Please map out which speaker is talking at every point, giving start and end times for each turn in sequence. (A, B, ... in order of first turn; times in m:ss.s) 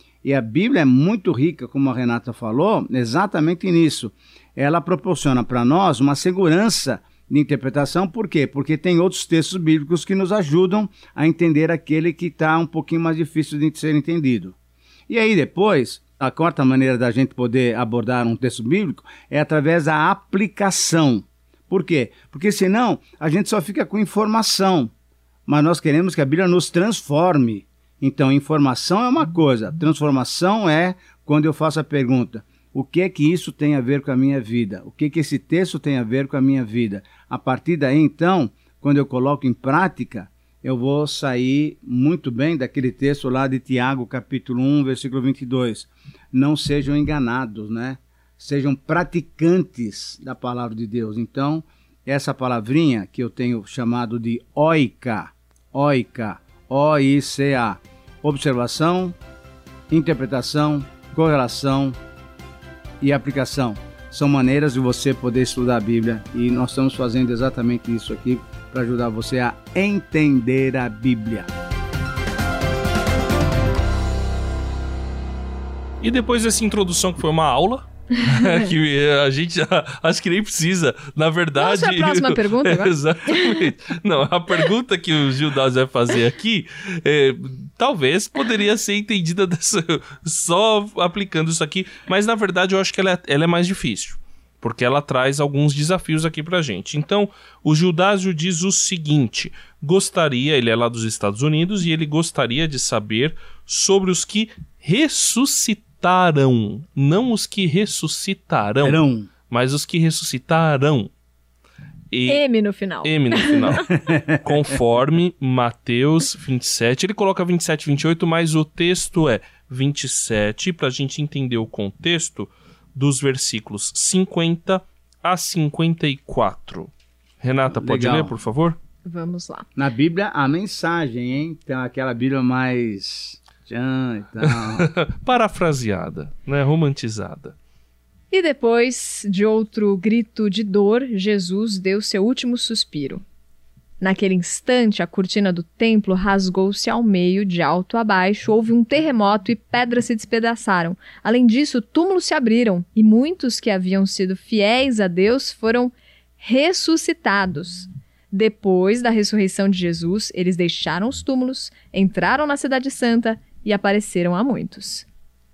0:00.2-0:14.6 A
0:15.1-0:24.9 A
0:25.5-0:59.2 A
0:59.9-1:02.0 A
1:03.0-1:11.5 A
1:16.0-1:51.1 B
1:21.6-1:23.6 C
1:48.8-1:49.3 A
1:52.1-1:52.4 B
1:52.3-1:53.9 C
1:53.0-2:08.8 B
1:54.1-1:54.4 A
2:07.7-2:08.3 A
2:09.0-2:09.7 C
2:09.8-2:14.9 A
2:14.7-2:17.6 B
2:18.3-2:23.2 C
2:24.0-2:45.1 C